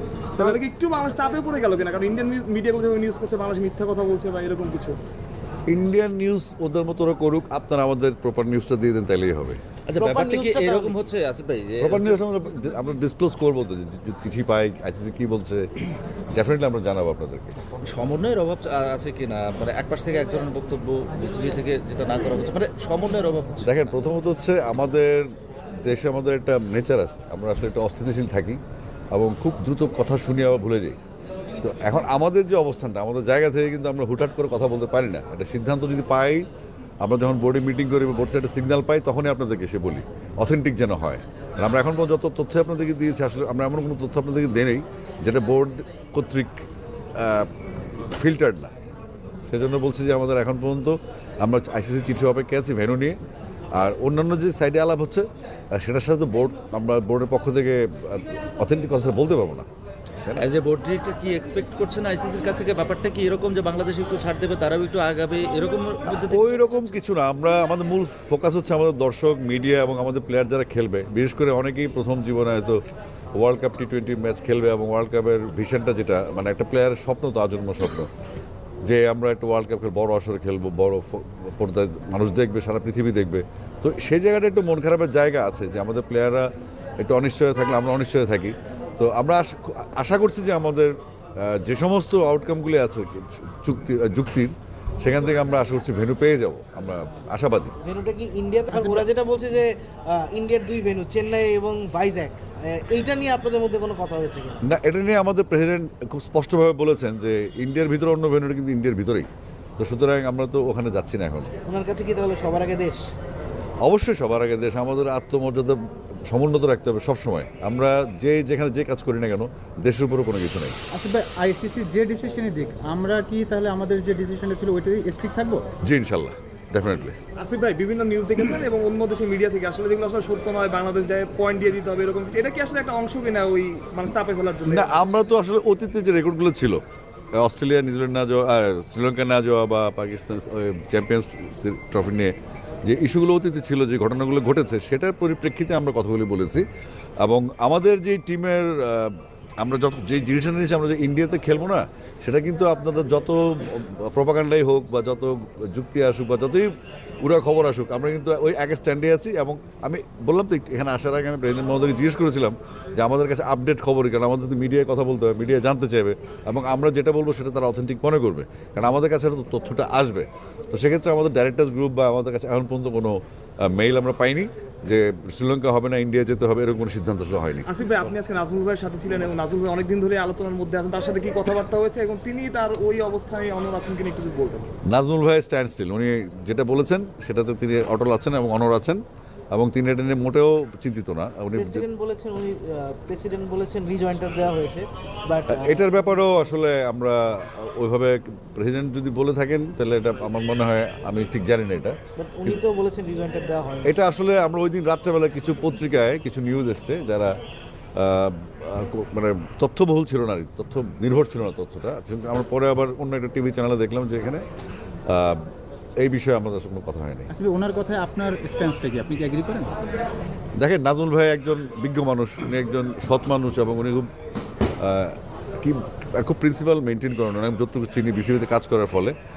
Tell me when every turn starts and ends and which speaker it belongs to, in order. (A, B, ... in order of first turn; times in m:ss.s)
0:00.4-0:05.0 A
0:05.7-0:09.6 B
0:09.9-0:12.2 C
0:10.0-0:11.0 D
0:11.8-0:15.7 B
0:16.3-0:17.6 B
0:17.8-0:24.0 C
0:23.6-0:31.0 B
0:31.6-0:36.5 B
0:37.0-0:48.7 B
0:49.5-0:53.2 B
0:53.8-0:59.7 B
1:00.4-1:06.9 C
1:06.1-1:12.8 B
1:13.3-1:18.1 B
1:18.8-1:37.8 B
1:37.8-1:44.6 D
1:38.7-1:39.0 E
1:44.6-1:51.5 B
1:51.7-1:53.0 D
1:53.8-2:00.8 B
2:00.9-2:05.6 E
2:05.8-2:07.2 B
2:07.4-2:15.0 A
2:14.7-2:16.8 B
2:17.4-2:26.6 B
2:27.2-2:36.7 B
2:37.2-2:57.7 B
2:57.7-3:04.7 A
3:04.9-3:09.0 B
3:09.5-3:11.9 B
3:11.5-3:15.9 D
3:15.5-3:22.6 B
3:22.2-3:24.0 D
3:23.8-3:27.4 B
3:28.0-3:34.4 B
3:35.1-3:37.3 B
3:37.3-3:39.7 E
3:40.6-3:44.1 B
3:44.8-3:49.2 B